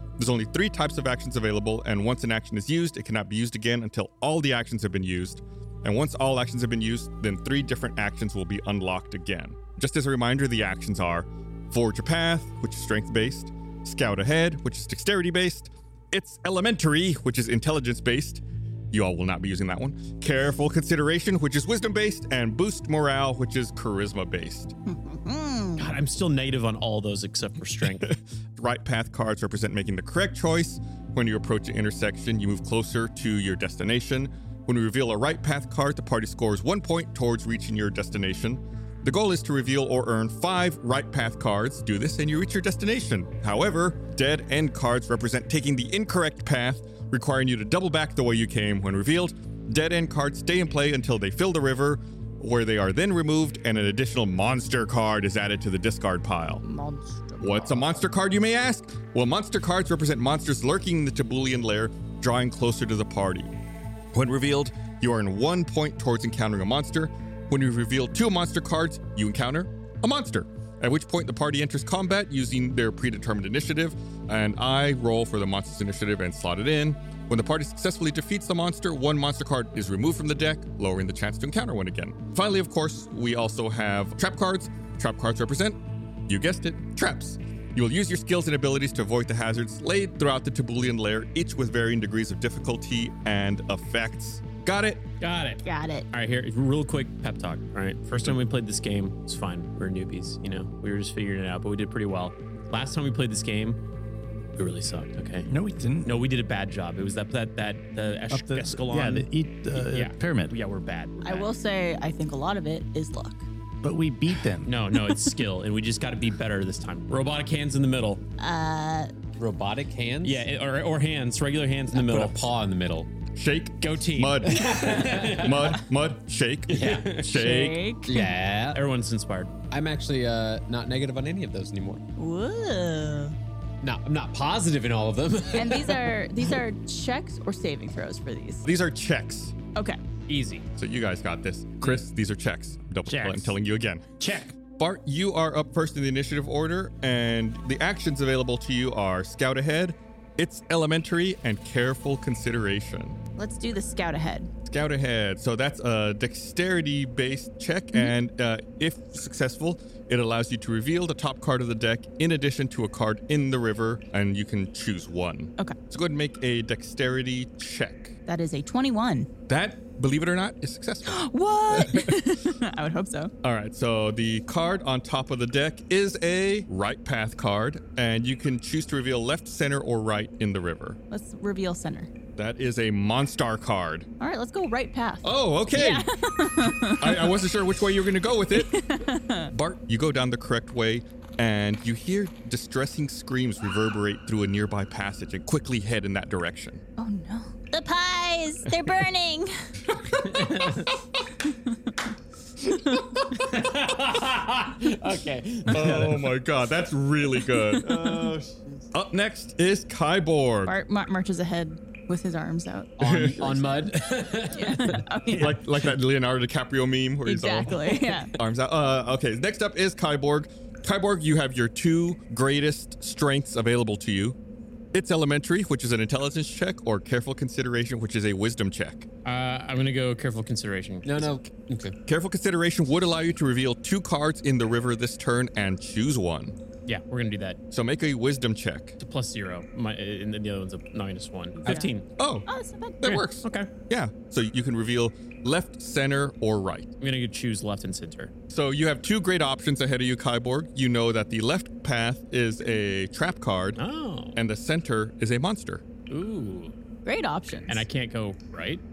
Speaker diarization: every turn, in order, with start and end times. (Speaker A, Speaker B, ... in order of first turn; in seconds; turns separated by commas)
Speaker A: 0.2-24.7, Speaker B: 24.9-25.9, Speaker C: 25.8-28.1, Speaker A: 28.0-56.6, Speaker D: 56.6-57.9, Speaker A: 57.4-63.5, Speaker A: 64.1-95.0, Speaker C: 95.2-103.8, Speaker B: 95.6-96.1, Speaker C: 104.5-105.5, Speaker E: 105.5-106.1, Speaker C: 106.0-111.5, Speaker E: 108.3-110.5, Speaker D: 111.2-113.5, Speaker E: 113.8-114.8, Speaker C: 114.6-118.2, Speaker B: 118.4-119.1, Speaker F: 119.4-120.5, Speaker C: 120.2-122.5, Speaker F: 121.9-123.1, Speaker A: 123.3-127.8, Speaker C: 123.8-125.8, Speaker F: 124.5-125.7, Speaker F: 126.7-127.3, Speaker D: 127.3-128.3, Speaker F: 128.1-128.8, Speaker C: 128.7-129.5, Speaker F: 129.7-132.0, Speaker D: 132.2-133.3, Speaker F: 133.8-136.1, Speaker D: 135.5-138.6, Speaker A: 138.6-139.5, Speaker C: 140.3-140.7, Speaker A: 140.8-144.1, Speaker C: 143.1-143.6, Speaker C: 144.2-144.6, Speaker A: 144.7-153.2, Speaker D: 153.4-154.5, Speaker A: 154.7-168.1, Speaker D: 168.2-169.3, Speaker A: 169.5-172.1, Speaker D: 171.1-173.3, Speaker A: 173.4-181.0, Speaker D: 181.1-182.1, Speaker A: 182.3-184.1, Speaker D: 184.2-187.3, Speaker A: 185.2-186.1, Speaker A: 186.9-188.7, Speaker D: 188.5-189.5, Speaker A: 189.5-196.8, Speaker D: 197.0-197.5, Speaker B: 197.7-199.5, Speaker A: 199.8-200.7, Speaker C: 200.3-200.8, Speaker D: 201.4-202.1, Speaker D: 202.7-203.2, Speaker C: 203.5-205.8, Speaker F: 205.0-205.3, Speaker A: 205.7-210.8, Speaker E: 205.8-206.1, Speaker D: 207.6-208.3, Speaker D: 210.6-212.9, Speaker F: 213.0-215.0, Speaker A: 213.0-213.5, Speaker D: 214.5-215.6, Speaker A: 215.3-217.8, Speaker D: 217.2-218.3, Speaker A: 218.3-224.4, Speaker A: 224.9-229.1, Speaker C: 229.2-231.4, Speaker F: 231.0-231.9, Speaker A: 232.1-236.6, Speaker C: 236.8-237.6, Speaker A: 237.7-239.0, Speaker C: 239.0-242.1, Speaker D: 241.6-241.9, Speaker A: 242.2-242.5, Speaker D: 242.5-243.0, Speaker A: 243.0-246.9, Speaker C: 243.0-243.7, Speaker C: 247.0-248.3, Speaker A: 248.5-253.8, Speaker C: 253.8-254.4, Speaker A: 254.3-255.8, Speaker C: 256.1-256.7, Speaker D: 257.0-257.9, Speaker C: 257.7-258.8